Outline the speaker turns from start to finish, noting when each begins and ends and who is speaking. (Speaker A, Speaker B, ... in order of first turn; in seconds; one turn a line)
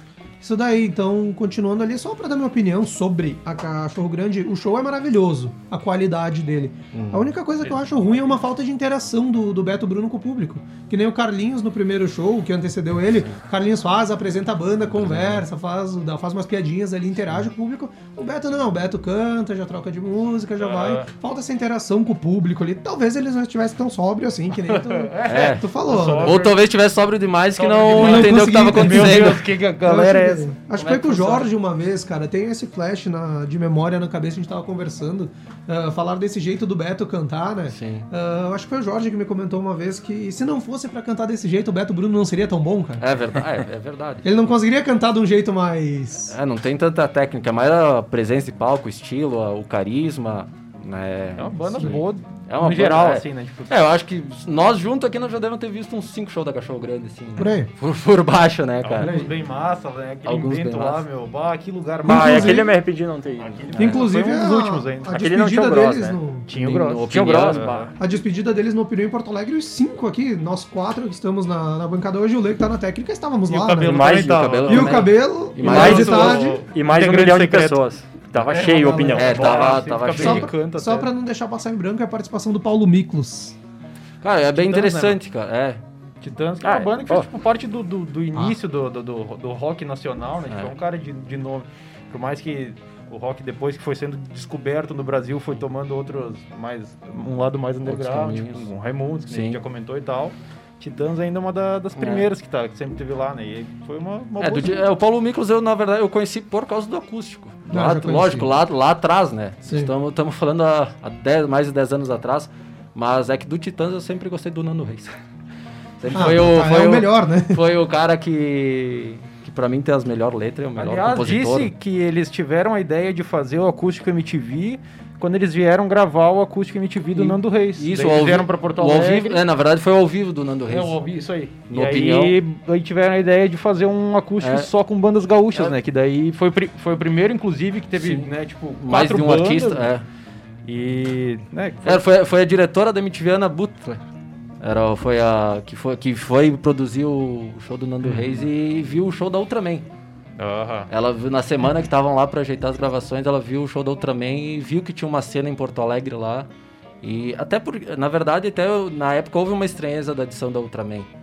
Speaker A: 0.4-26.4
Speaker B: 6.9-7.3
Speaker C: 7.6-8.2
Speaker B: 13.1-13.4
Speaker B: 14.9-15.5
Speaker C: 20.6-21.1
Speaker C: 24.6-26.6
Speaker B: 25.2-29.5
Speaker C: 27.6-31.5
Speaker A: 27.9-43.0
Speaker B: 37.7-38.1
Speaker B: 43.0-44.3
Speaker A: 44.2-46.4
Speaker B: 46.3-59.2
Speaker C: 51.4-53.7
Speaker A: 57.4-57.7
Speaker C: 58.8-62.7
Speaker A: 59.0-59.3
Speaker B: 60.2-61.1
Speaker A: 62.0-62.7
Speaker D: 62.0-63.7
Speaker C: 63.4-65.2
Speaker A: 63.8-66.5
Speaker D: 65.1-66.2
Speaker C: 66.5-67.9
Speaker B: 66.5-67.7
Speaker D: 67.1-67.9
Speaker A: 68.0-74.0
Speaker C: 73.5-75.0
Speaker D: 73.8-74.9
Speaker B: 74.3-76.4
Speaker A: 74.7-76.6
Speaker D: 75.6-79.8
Speaker C: 75.6-77.8
Speaker C: 78.4-81.1
Speaker A: 78.5-79.3
Speaker B: 79.1-80.5
Speaker A: 80.0-83.6
Speaker B: 84.2-85.8
Speaker C: 84.5-85.2
Speaker C: 86.2-104.9
Speaker D: 86.6-87.3
Speaker B: 90.5-90.8
Speaker B: 97.8-98.7
Speaker B: 99.3-99.6
Speaker B: 102.0-102.3
Speaker B: 104.4-115.2
Speaker A: 107.7-108.5
Speaker A: 109.7-109.9
Speaker B: 116.0-121.7
Speaker A: 116.1-117.6
Speaker C: 120.8-129.4
Speaker B: 127.1-131.0
Speaker C: 130.7-139.9
Speaker B: 131.7-132.4
Speaker B: 134.4-134.7
Speaker B: 137.9-140.1
Speaker C: 140.7-142.0
Speaker B: 141.8-144.0
Speaker B: 144.6-149.9
Speaker C: 148.0-148.5
Speaker C: 150.4-150.9
Speaker B: 150.9-156.5
Speaker B: 157.0-161.1